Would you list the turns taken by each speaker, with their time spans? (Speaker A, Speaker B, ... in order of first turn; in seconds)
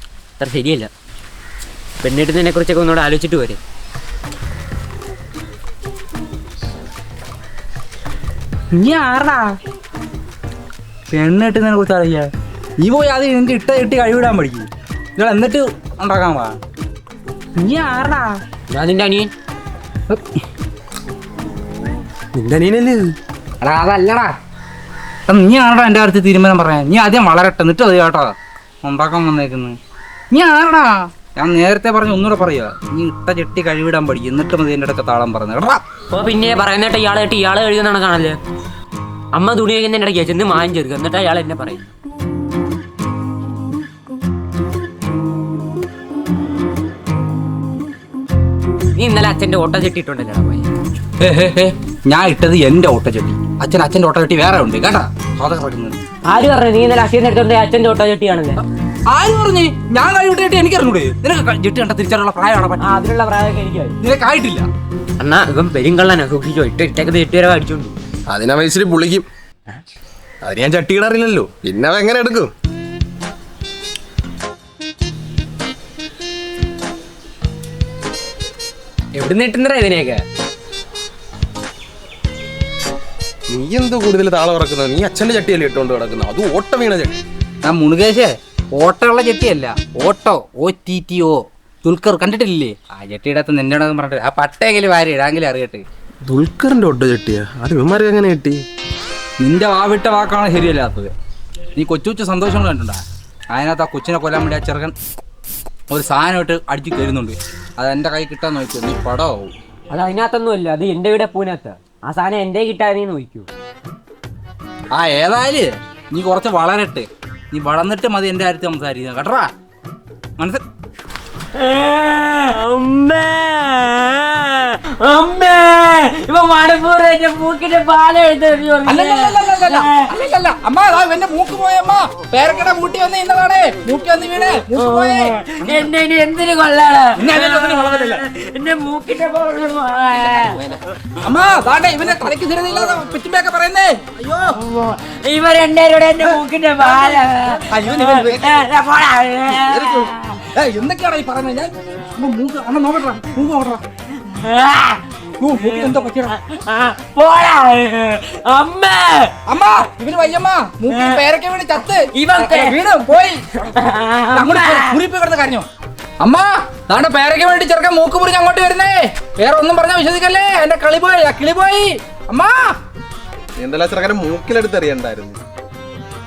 Speaker A: 0.4-0.9, 2.0-3.6, 18.7-19.3, 23.6-24.3, 36.1-38.4, 39.3-41.9, 49.0-50.7, 56.3-58.6, 62.8-64.0, 65.2-67.9, 79.2-80.2, 109.9-113.5, 121.5-130.1, 134.7-140.6, 144.5-150.4, 154.2-155.0, 155.6-159.3, 160.9-161.2, 162.1-162.8, 163.6-164.9
Speaker B: 8.7-9.5, 11.1-16.6, 17.6-18.4, 25.3-29.8, 30.3-35.8, 51.2-56.0, 59.1-62.9, 64.0-64.7, 87.6-95.8, 99.4-101.1, 101.8-104.9, 105.9-109.5, 114.9-119.5, 128.8-135.9, 137.2-138.2, 140.4-144.6, 146.2-148.6, 149.5-153.8, 155.4-156.3, 159.4-163.7, 164.3-165.7, 166.2-172.7
Speaker C: 22.4-23.0, 68.3-69.2, 70.4-72.5, 83.5-87.2, 96.2-98.6, 173.6-175.4